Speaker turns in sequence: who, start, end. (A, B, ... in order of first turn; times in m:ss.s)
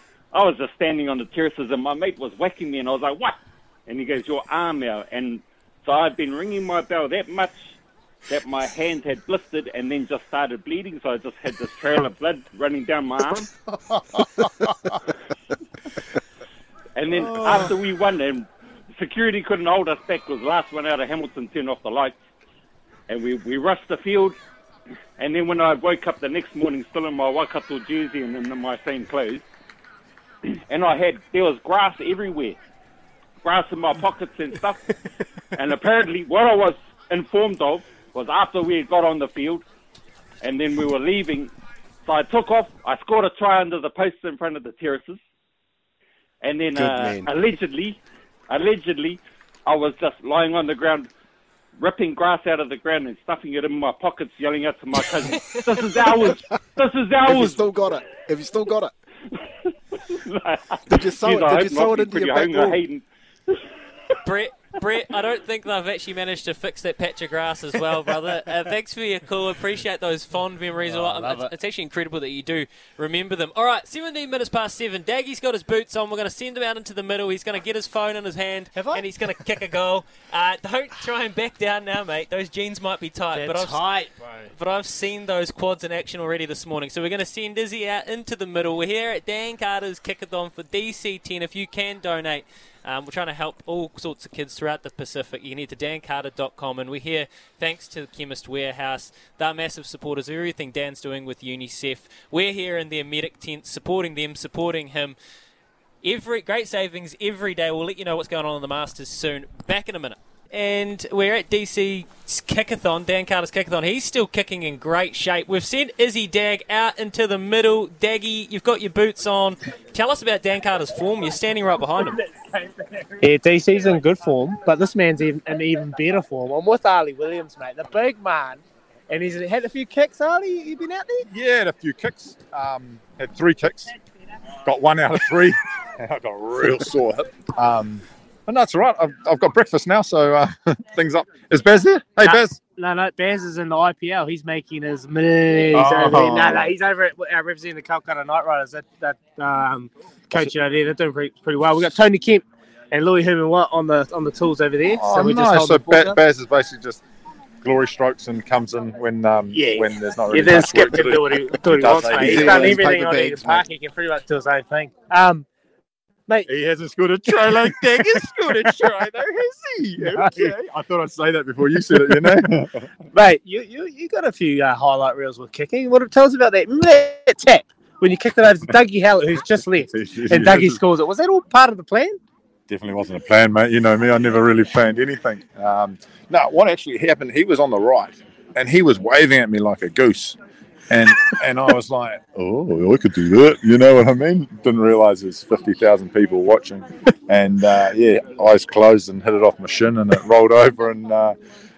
0:00.3-0:07.7 A
0:08.3-0:13.5 A
0:17.0-0:22.2 A
0:23.1-0:24.4 A
0:25.2-0:29.4 A
0:30.5-0:32.6 A
0:33.4-0:34.8 A
0:35.6-0:39.6 A
0:40.4-0:41.5 A
0:42.0-0:45.2 A
0:46.4-0:51.1 A
0:46.7-0:47.3 B
0:51.8-0:57.6 A
0:57.2-0:58.9 B
1:00.1-1:03.6 A
1:00.9-1:02.8 B
1:04.2-1:23.9 C
1:10.8-1:11.5 D
1:18.8-1:19.2 D
1:23.3-1:24.5 D
1:24.5-1:45.2 C
1:46.0-2:02.2 C
2:02.4-2:11.3 E
2:11.3-2:13.9 F
2:14.6-2:22.6 F
2:22.2-2:36.2 E
2:25.7-2:26.7 F
2:34.9-2:37.0 F
2:37.6-2:42.8 F
2:39.5-2:45.5 E
2:42.2-2:43.7 B
2:46.5-2:52.8 F
2:47.3-2:48.9 E
2:50.0-2:50.5 E
2:51.9-2:52.5 E
2:53.1-3:02.2 E
2:59.7-3:00.8 F
3:02.7-3:10.4 F
3:10.9-3:21.4 F